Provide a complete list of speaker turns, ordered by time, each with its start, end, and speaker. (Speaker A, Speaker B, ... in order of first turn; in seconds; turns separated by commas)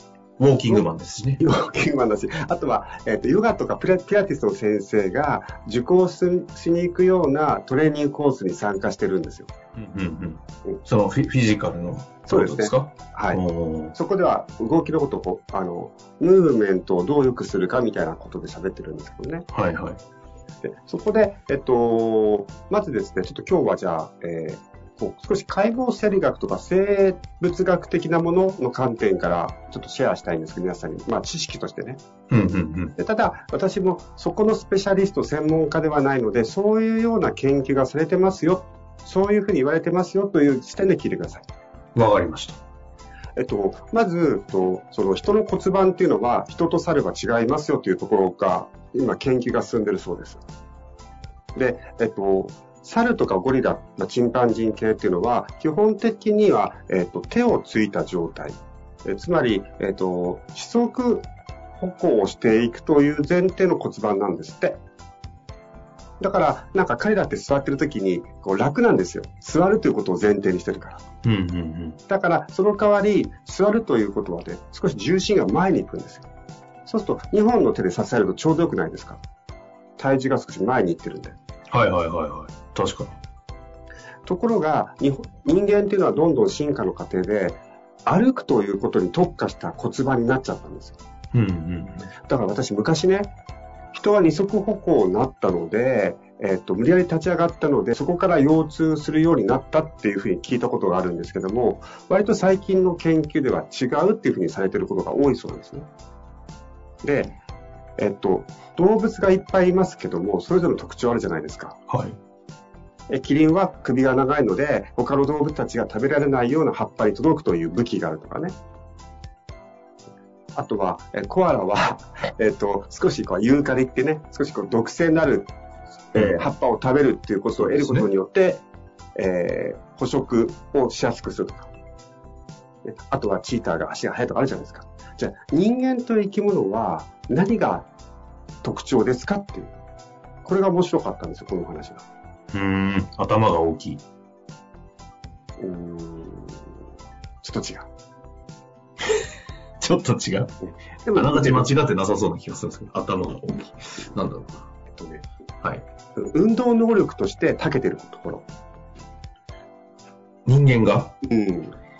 Speaker A: 0.4-1.4, Speaker B: 1.4-9.5, Speaker A: 9.8-13.9, Speaker B: 12.3-13.4, Speaker B: 13.9-19.4, Speaker A: 19.5-20.0, Speaker B: 20.6-32.0, Speaker A: 32.3-32.9, Speaker B: 33.0-41.4, Speaker A: 41.9-42.6, Speaker B: 43.4-50.4, Speaker B: 51.5-64.8, Speaker B: 66.2-71.0, Speaker A: 71.2-72.0, Speaker B: 72.1-76.3, Speaker B: 76.8-79.2, Speaker B: 80.0-81.3, Speaker A: 81.7-83.2, Speaker B: 84.2-91.0, Speaker A: 91.3-92.1, Speaker B: 92.3-93.3, Speaker B: 93.9-105.9, Speaker B: 107.0-107.3, Speaker B: 108.0-111.8, Speaker A: 111.9-112.2, Speaker B: 113.1-118.5, Speaker B: 120.5-125.5, Speaker B: 126.1-128.6, Speaker A: 126.1-126.5, Speaker A: 127.6-128.1, Speaker B: 129.2-131.7, Speaker B: 132.8-137.9, Speaker B: 138.6-139.7, Speaker B: 140.4-142.0, Speaker A: 142.5-144.0, Speaker B: 145.6-146.6, Speaker B: 147.4-147.9, Speaker A: 149.8-150.5, Speaker B: 151.1-151.7, Speaker A: 151.1-154.6, Speaker B: 154.9-155.2, Speaker B: 156.2-158.5, Speaker A: 160.4-161.1, Speaker B: 161.2-161.8